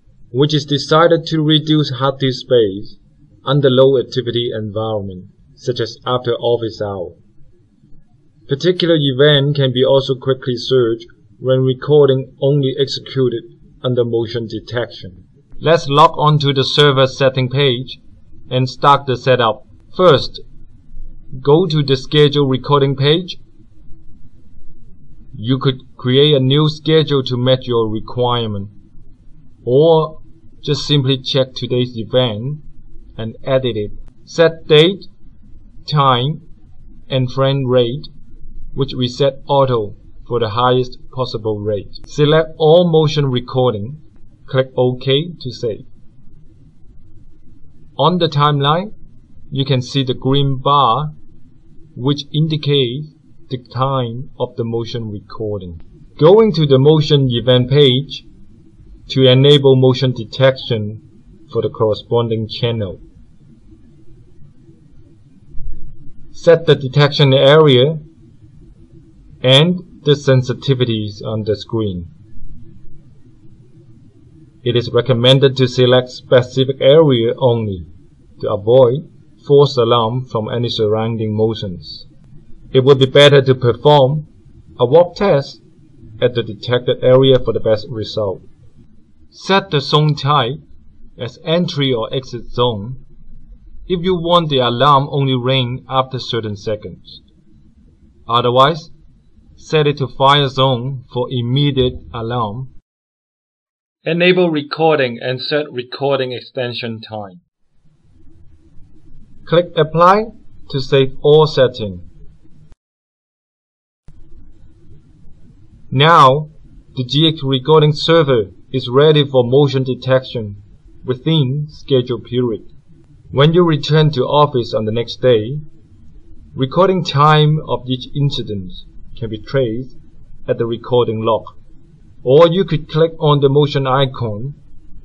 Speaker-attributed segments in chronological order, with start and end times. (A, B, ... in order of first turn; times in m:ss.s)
0:00.3-0:07.2 A
0:08.5-0:20.4 A
0:21.4-0:23.4 A
0:25.4-0:28.7 A
0:29.6-0:32.6 A
0:33.2-0:35.1 A
0:35.8-0:36.4 A
0:37.1-0:38.1 A
0:38.7-0:45.9 A
0:48.0-0:48.9 A
0:49.5-0:51.1 A
0:52.0-0:58.3 A
0:59.1-1:03.0 A
1:06.3-1:08.0 A
1:09.4-1:12.1 A
1:14.6-1:17.9 A
1:18.4-1:22.1 A
1:22.7-1:25.6 A
1:26.2-1:28.4 A
1:29.3-1:30.6 A
1:31.2-1:33.0 A
1:33.9-1:37.2 A
1:38.3-1:38.9 A
1:39.6-1:42.7 A
1:44.0-1:47.4 A
1:49.5-1:52.0 A
1:55.9-2:02.7 A
2:03.3-2:05.6 A
2:06.6-2:11.6 A
2:12.2-2:14.6 A